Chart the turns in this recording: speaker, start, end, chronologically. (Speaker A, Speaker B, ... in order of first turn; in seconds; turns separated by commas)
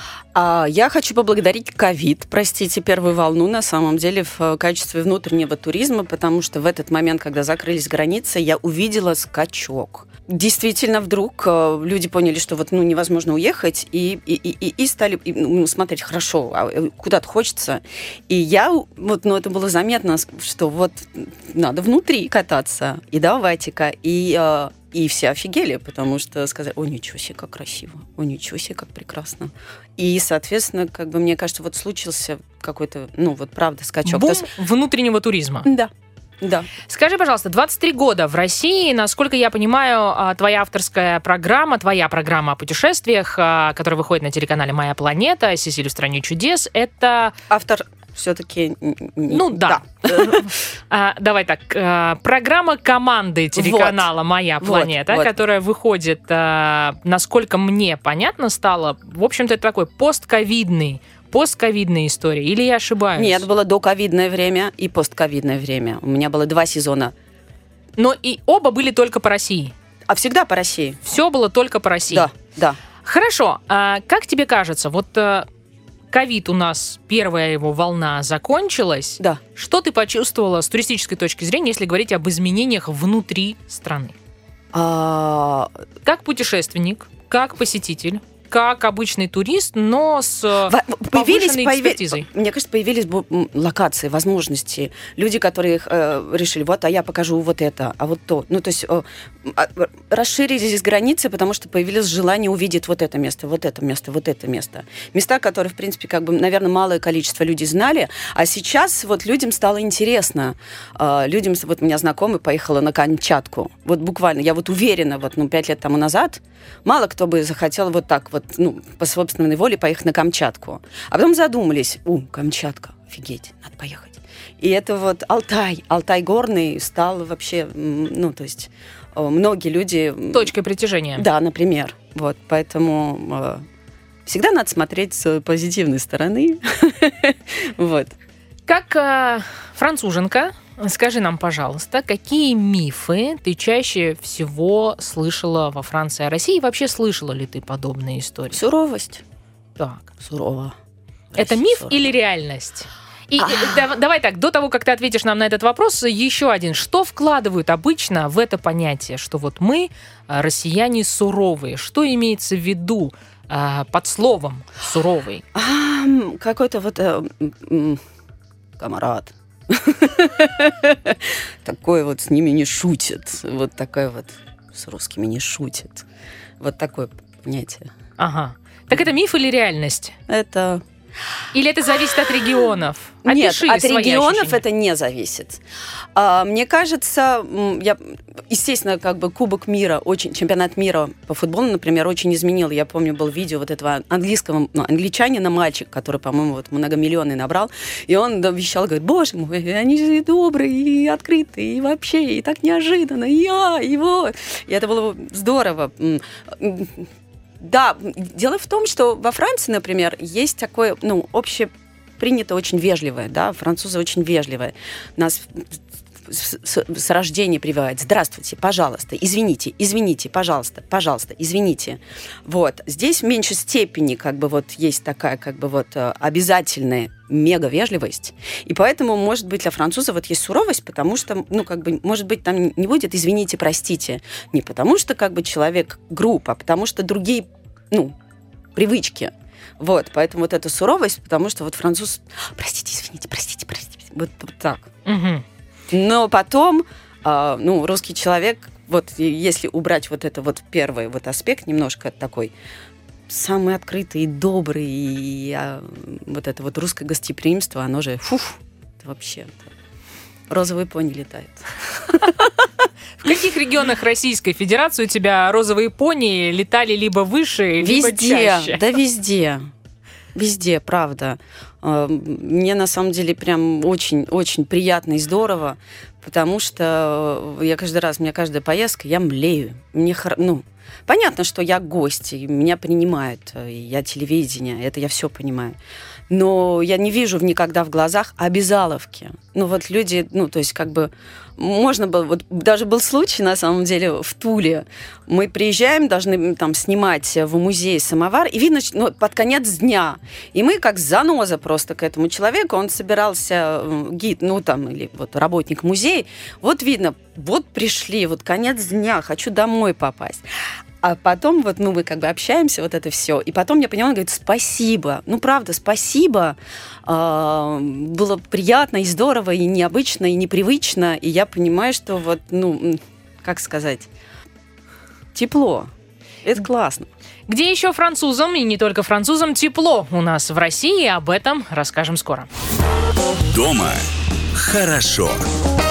Speaker A: 0.3-34.5, Speaker B: 34.0-35.7, Speaker A: 35.7-36.7, Speaker B: 36.9-47.4, Speaker A: 47.5-50.5, Speaker B: 49.3-63.5, Speaker A: 53.6-54.1, Speaker A: 54.6-55.4, Speaker A: 63.2-67.1, Speaker B: 68.0-69.7, Speaker A: 70.1-71.0, Speaker B: 71.0-72.3, Speaker A: 72.1-72.8, Speaker B: 73.0-75.5, Speaker B: 76.1-84.2, Speaker A: 84.7-85.7, Speaker B: 86.0-92.3, Speaker A: 90.7-130.5, Speaker B: 130.3-131.3, Speaker A: 131.2-133.7, Speaker A: 134.3-138.2, Speaker B: 138.7-148.6, Speaker A: 148.5-149.2, Speaker B: 149.8-150.1, Speaker A: 150.2-150.8, Speaker A: 151.3-152.0, Speaker B: 151.3-165.4, Speaker A: 153.4-153.8, Speaker A: 165.5-168.0, Speaker A: 168.8-176.1, Speaker A: 176.6-177.9, Speaker B: 178.2-180.2, Speaker A: 180.3-180.8, Speaker B: 181.5-184.6, Speaker A: 183.2-185.6, Speaker A: 186.2-238.2, Speaker A: 238.8-244.9, Speaker B: 245.1-245.4, Speaker A: 245.9-252.5, Speaker A: 253.3-259.7, Speaker A: 260.5-262.7, Speaker B: 263.2-268.9, Speaker A: 267.8-269.6, Speaker A: 270.4-285.8, Speaker A: 286.3-310.4, Speaker A: 311.0-324.1, Speaker A: 325.3-325.9, Speaker A: 326.4-327.1, Speaker B: 327.5-332.5, Speaker C: 333.5-335.5